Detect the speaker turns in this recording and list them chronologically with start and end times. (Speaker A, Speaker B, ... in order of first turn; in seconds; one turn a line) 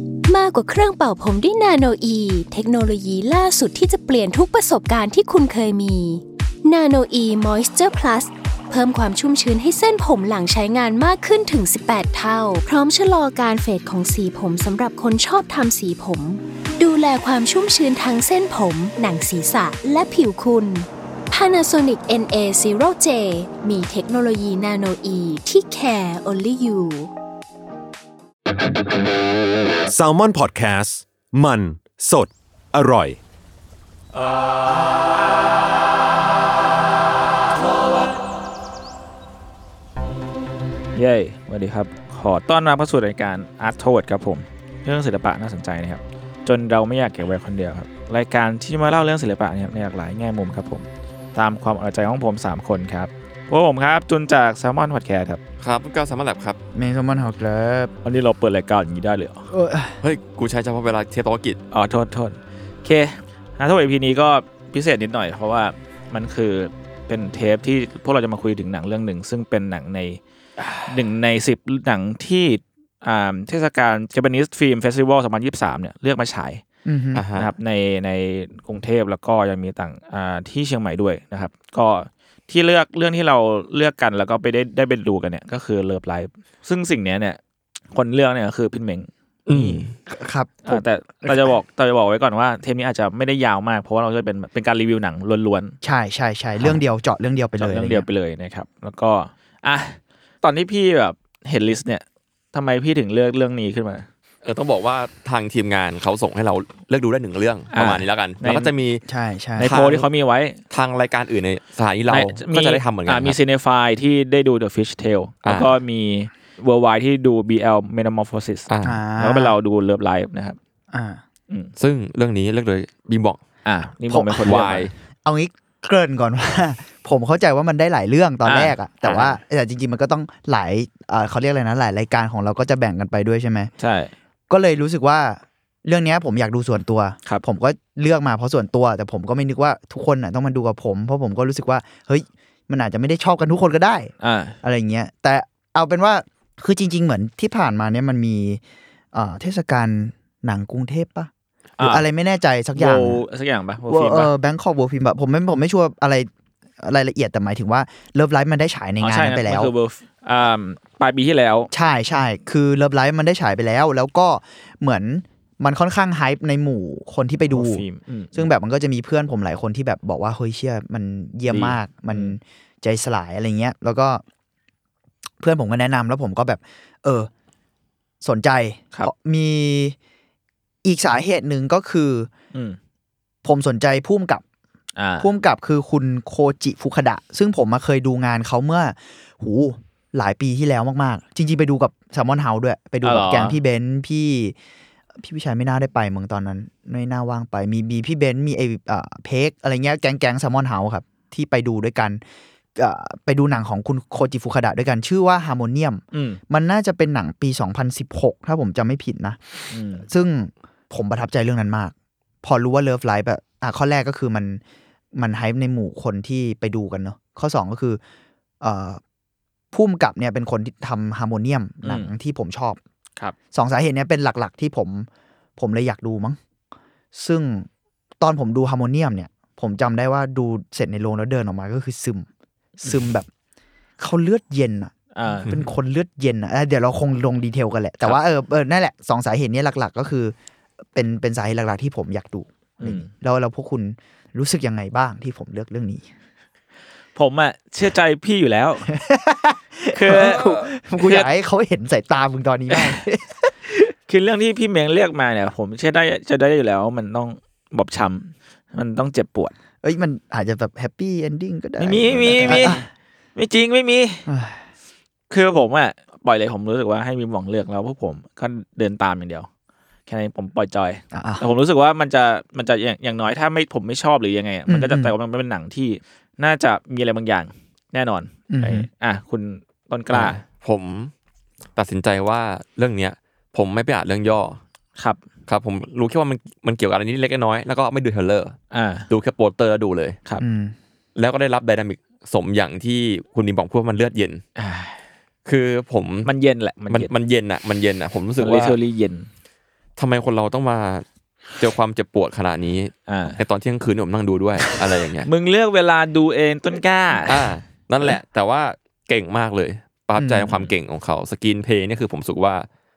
Speaker A: 0.2-27.1
Speaker B: 29.9-33.2
Speaker C: 40.9-55.4
Speaker D: 55.6-56.6
Speaker E: 56.7-57.9
Speaker C: 58.0-59.5
Speaker E: 59.5-60.0
Speaker D: 60.0-61.6
Speaker C: 61.7-70.2
Speaker C: 70.8-76.6
Speaker E: 76.8-77.2
Speaker D: 77.1-77.5
Speaker C: 77.3-87.4
Speaker C: 87.9-89.8
Speaker D: 89.5-89.9
Speaker E: 90.1-91.4
Speaker C: 90.6-95.8
Speaker E: 95.8-98.1
Speaker C: 97.6-104.1
Speaker D: 104.4-109.0
Speaker C: 107.7-108.7
Speaker E: 109.0-109.7
Speaker C: 109.6-110.6
Speaker D: 109.6-110.1
Speaker D: 110.7-113.3
Speaker C: 112.1-120.6
Speaker D: 115.4-115.8
Speaker D: 118.7-119.0
Speaker E: 118.8-119.5
Speaker E: 120.9-121.2
Speaker D: 121.8-123.4
Speaker C: 123.6-124.9
Speaker E: 124.1-124.6
Speaker D: 124.4-124.9
Speaker E: 125.2-133.7
Speaker C: 128.4-129.3
Speaker C: 133.8-134.1
Speaker E: 134.5-144.1
Speaker C: 144.2-144.6
Speaker E: 144.6-148.6
Speaker E: 149.1-153.2
Speaker C: 151.8-152.0
Speaker C: 152.7-154.3
Speaker E: 153.9-159.7
Speaker C: 159.0-161.7
Speaker E: 161.7-174.2
Speaker C: 167.5-168.5
Speaker C: 171.5-172.3
Speaker E: 175.4-177.3
Speaker E: 178.2-179.9
Speaker E: 180.8-182.3
Speaker E: 183.4-184.4
Speaker C: 185.0-185.3
Speaker E: 185.2-194.5
Speaker C: 193.0-193.6
Speaker E: 195.2-202.2
Speaker E: 202.8-214.6
Speaker C: 206.1-206.4
Speaker C: 209.7-210.1
Speaker E: 215.1-218.0
Speaker E: 218.6-219.0
Speaker E: 219.7-222.8
Speaker C: 221.8-222.1
Speaker E: 223.5-226.4
Speaker E: 227.1-227.7
Speaker E: 228.2-232.3
Speaker E: 232.8-233.3
Speaker E: 234.0-240.3
Speaker C: 235.1-235.7
Speaker E: 240.9-246.1
Speaker C: 242.8-243.1
Speaker C: 247.1-248.9
Speaker E: 248.9-253.9
Speaker C: 249.9-251.3
Speaker C: 252.7-253.0
Speaker C: 254.1-259.5
Speaker E: 259.8-262.8
Speaker C: 261.8-264.3
Speaker E: 264.3-264.6
Speaker C: 265.3-269.5
Speaker C: 270.1-280.4
Speaker E: 271.1-271.4
Speaker E: 274.7-275.1
Speaker E: 278.5-278.9
Speaker D: 280.1-281.1
Speaker D: 281.8-284.6
Speaker D: 285.5-288.6
Speaker C: 288.7-289.1
Speaker D: 289.1-290.2
Speaker E: 290.4-290.8
Speaker D: 291.1-294.4
Speaker C: 294.6-295.0
Speaker D: 295.4-296.3
Speaker C: 296.2-297.1
Speaker D: 296.9-298.8
Speaker C: 298.4-299.3
Speaker D: 300.0-301.0
Speaker D: 301.6-305.3
Speaker C: 303.1-303.4
Speaker C: 305.2-307.5
Speaker D: 307.2-312.6
Speaker E: 310.2-310.6